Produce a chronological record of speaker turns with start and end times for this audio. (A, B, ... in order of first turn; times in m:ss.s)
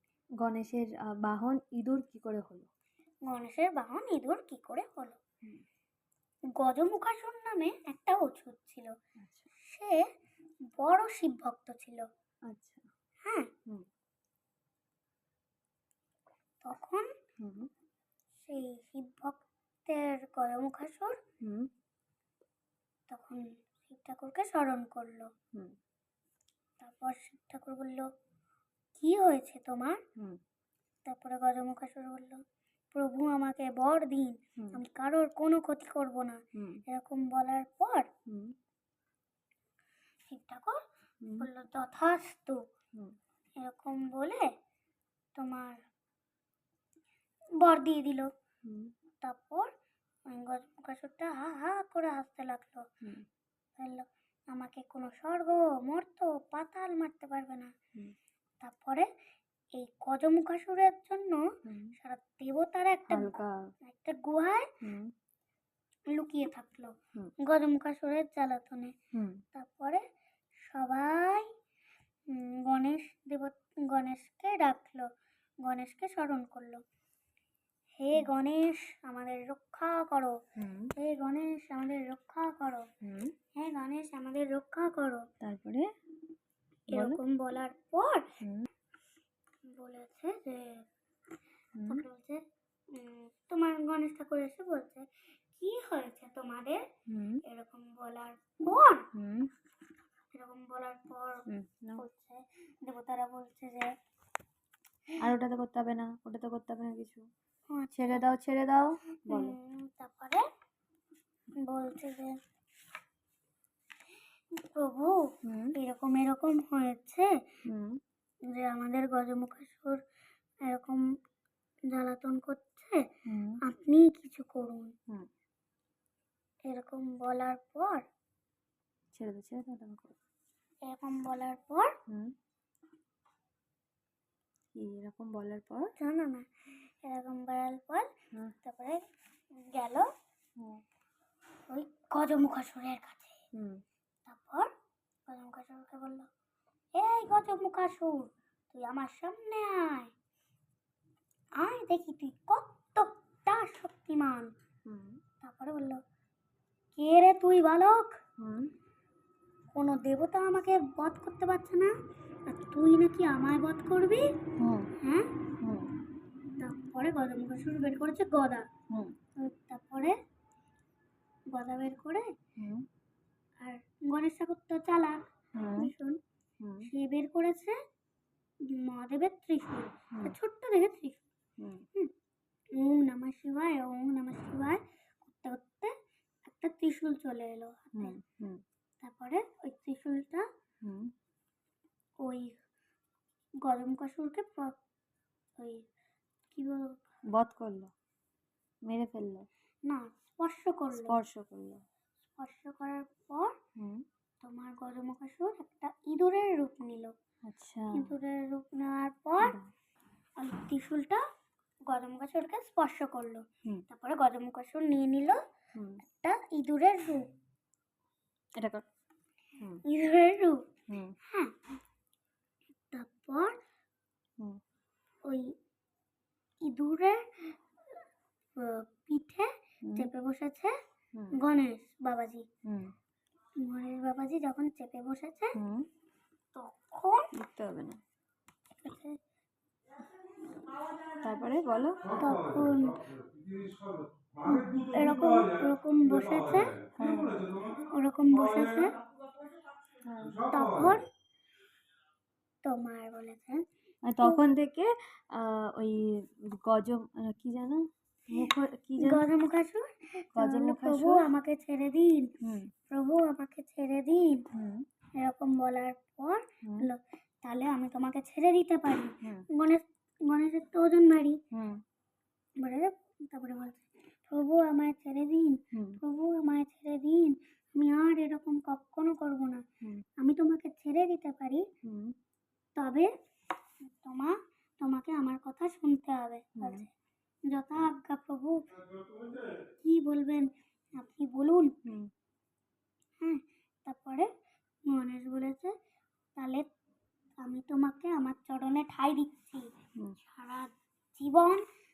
0:00.4-0:02.7 A
0:03.3-0:05.2 B
0:06.6-0:08.9 B
0:09.2-0:09.5 A
0:09.6-0:10.0 B
0:10.7-0:12.0 B
0:12.5-0:12.8 A
0:13.2-0:13.5 B
0:16.6-0:17.1 B
0:17.4-0:17.7 A
0:18.4-0:21.2 B
0:21.4-0:21.7 A
0:23.1-0:25.3 B
0:26.8-0:28.1 B
0:28.9-0:30.0 B
0:31.0-0:32.4 B
0:32.9-0:38.1 B
0:36.6-0:36.8 A
0:38.3-0:38.5 A
0:40.2-0:40.8 B
0:41.2-0:41.5 A
0:41.4-0:42.6 B
0:43.6-0:44.5 B
0:45.4-0:45.8 B
0:47.6-0:48.3 B
0:48.6-0:48.9 A
0:49.2-0:49.7 B
0:50.3-0:52.8 B
0:53.8-0:57.7 B
0:58.6-0:59.1 B
0:59.7-1:04.7 B
1:01.6-1:01.9 A
1:03.1-1:03.7 A
1:04.8-1:05.1 A
1:06.1-1:08.9 B
1:09.1-1:09.4 A
1:09.5-1:10.0 B
1:10.6-1:11.5 B
1:12.3-1:15.1 B
1:15.6-1:16.8 B
1:18.0-1:20.4 B
1:20.6-1:20.9 A
1:21.0-1:22.9 B
1:23.0-1:23.3 A
1:23.5-1:25.3 B
1:25.4-1:25.9 A
1:26.9-1:27.2 A
1:26.9-1:28.3 B
1:28.4-1:28.7 A
1:29.7-1:30.9 B
1:31.8-1:32.0 A
1:31.8-1:36.8 B
1:37.1-1:37.4 A
1:37.4-1:39.1 B
1:39.1-1:39.5 A
1:40.3-1:41.4 B
1:41.5-1:42.0 A
1:42.0-1:43.9 B
1:45.2-1:47.2 A
1:47.7-1:48.2 B
1:47.9-1:49.6 A
1:49.3-1:50.4 B
1:51.6-1:52.3 B
1:54.5-1:55.2 B
1:55.4-1:55.7 A
1:55.7-1:57.3 B
1:57.7-1:58.0 A
1:58.5-2:00.0 B
2:00.6-2:01.0 B
2:01.9-2:03.0 B
2:03.3-2:03.6 A
2:03.6-2:04.9 B
2:06.7-2:08.0 B
2:09.1-2:10.2 A
2:10.8-2:11.9 B
2:12.1-2:12.3 A
2:14.7-2:15.9 A
2:16.0-2:18.1 B
2:18.6-2:20.1 B
2:21.7-2:23.4 B
2:23.5-2:23.8 A
2:24.2-2:24.7 B
2:25.3-2:26.3 B
2:26.9-2:30.1 B
2:31.6-2:34.5 B
2:34.8-2:35.2 A
2:35.4-2:36.0 B
2:36.9-2:38.2 B
2:38.4-2:38.7 A
2:39.7-2:41.9 B
2:42.5-2:44.3 B
2:44.6-2:44.9 A
2:45.0-2:45.3 B
2:45.6-2:45.9 A
2:46.6-2:48.7 B
2:49.4-2:50.1 B
2:51.5-2:52.3 B
2:52.6-2:52.8 A
2:53.6-2:55.2 B
2:55.6-2:55.9 A
2:55.7-2:56.2 B
2:56.6-2:56.9 A
2:56.8-2:57.8 B
2:58.6-3:01.2 B
3:01.6-3:01.8 A
3:02.7-3:05.9 B
3:06.4-3:08.2 B
3:08.0-3:08.6 A
3:09.0-3:10.4 B
3:10.8-3:11.1 A
3:12.2-3:12.6 B
3:13.6-3:14.8 B
3:15.6-3:15.8 B
3:16.5-3:17.0 B
3:17.3-3:17.9 A
3:18.8-3:19.5 A
3:19.8-3:21.2 B
3:20.9-3:21.8 A
3:22.4-3:23.6 B
3:23.8-3:24.0 A
3:24.4-3:27.1 B
3:27.5-3:28.1 A
3:27.9-3:29.5 B
3:29.4-3:29.7 A
3:30.4-3:31.2 B
3:31.9-3:35.4 B
3:35.7-3:36.0 A
3:36.1-3:37.2 B
3:38.6-3:38.8 A
3:39.8-3:40.6 B
3:40.9-3:41.2 A
3:41.2-3:41.5 B
3:42.9-3:43.6 B
3:45.2-3:45.5 B
3:46.6-3:47.6 B
3:48.6-3:50.7 B
3:49.8-3:50.1 A
3:51.3-3:52.4 B
3:52.6-3:52.9 A
3:53.6-3:55.6 B
3:55.5-3:55.9 A
3:56.5-3:57.3 B
3:57.3-3:58.0 A
3:58.8-3:59.2 B
4:01.1-4:02.1 A
4:02.1-4:03.1 B
4:04.4-4:06.9 B
4:04.4-4:04.9 A
4:07.0-4:07.5 A
4:07.9-4:09.0 B
4:10.0-4:10.4 A
4:10.5-4:11.0 B
4:12.6-4:13.6 B
4:14.0-4:19.2 A
4:19.0-4:22.3 B
4:20.4-4:21.2 A
4:22.4-4:22.7 A
4:22.9-4:24.4 B
4:24.5-4:24.8 A
4:25.2-4:31.4 B
4:26.6-4:26.9 A
4:31.5-4:31.8 A
4:32.6-4:39.6 B
4:35.7-4:36.0 A
4:40.2-4:41.6 B
4:41.8-4:42.1 A
4:42.8-4:43.1 B
4:43.8-4:46.9 B
4:46.6-4:46.9 A
4:47.4-4:48.7 B
4:49.8-4:51.7 B
4:51.8-4:52.1 A
4:53.2-4:54.3 B
4:54.9-4:55.7 B
4:56.4-4:56.7 B
4:57.4-4:59.7 B
5:00.2-5:01.6 B